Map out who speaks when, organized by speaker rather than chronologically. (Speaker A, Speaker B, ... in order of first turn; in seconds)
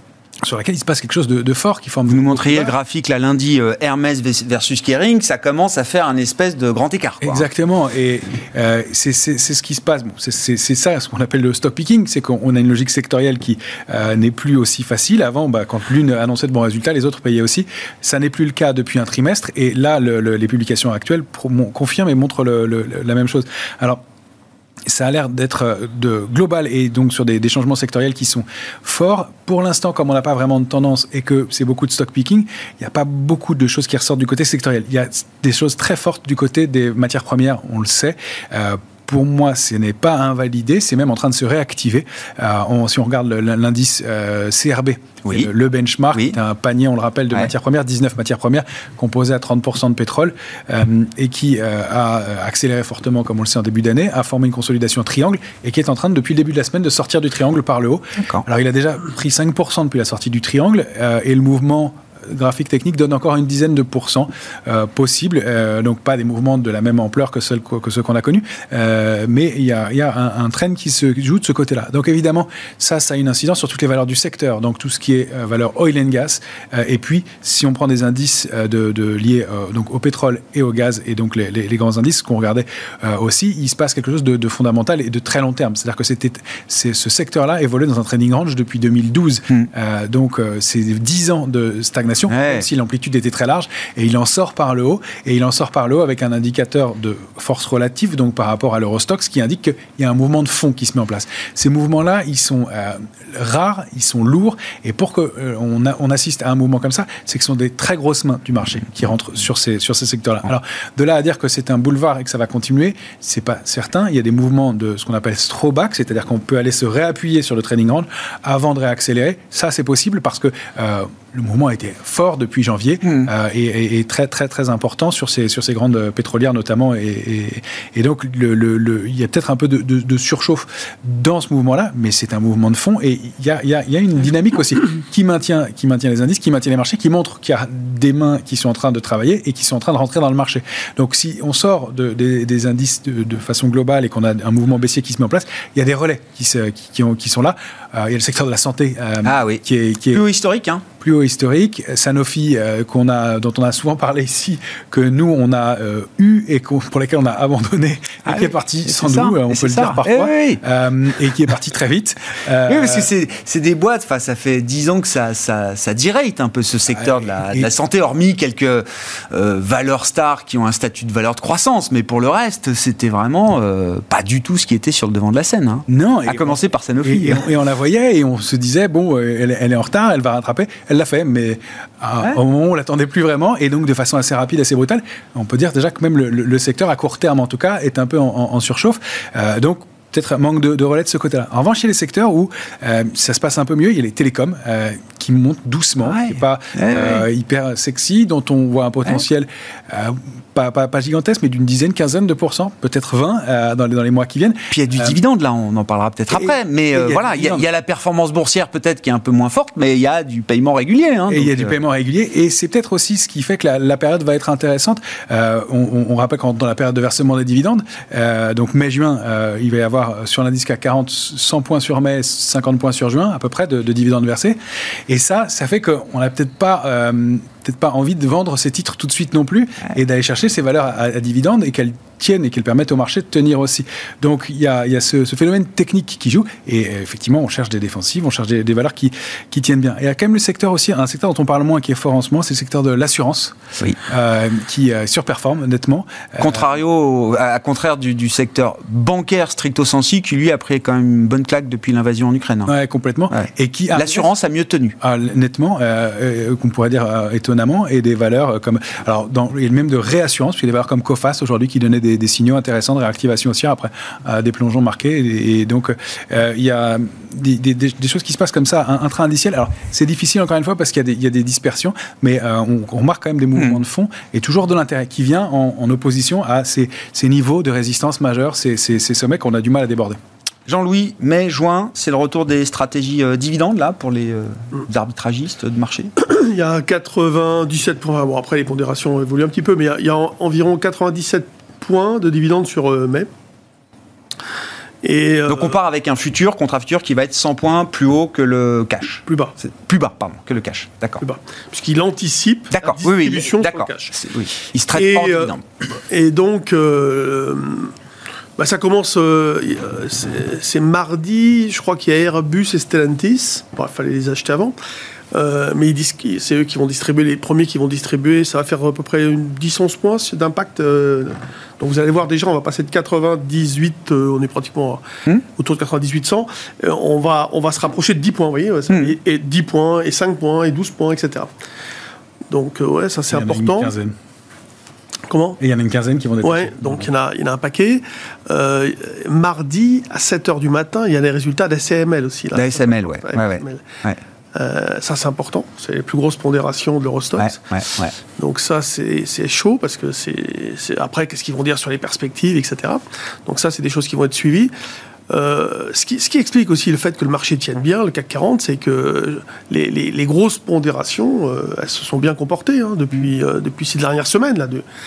Speaker A: 0.4-2.7, 7.2-24.0, 24.9-150.2, 151.0-163.1, 166.9-167.7, 175.9-205.2, 206.3-207.6, 211.3-246.7, 252.7-254.3, 255.0-280.2, 333.3-334.1, 335.6-337.1
Speaker B: 2.1-7.5, 45.2-45.5, 58.2-58.4, 92.3-92.7, 123.0-123.3, 149.2-150.8, 158.2-160.6, 162.7-177.4, 196.0-197.2, 204.7-211.7, 246.4-252.7, 253.3-254.9, 273.6-273.8, 280.7-286.1, 295.4-301.2, 302.7-305.6, 328.9-329.1, 342.5-344.2, 347.4-348.1
Speaker C: 286.2-293.3, 295.0-295.8, 299.2-299.5, 301.2-304.2, 304.9-305.5, 306.1-307.9, 308.6-314.8, 315.3-331.5, 332.5-333.9, 335.3-335.6, 336.4-343.8, 344.5-354.7, 355.3-364.8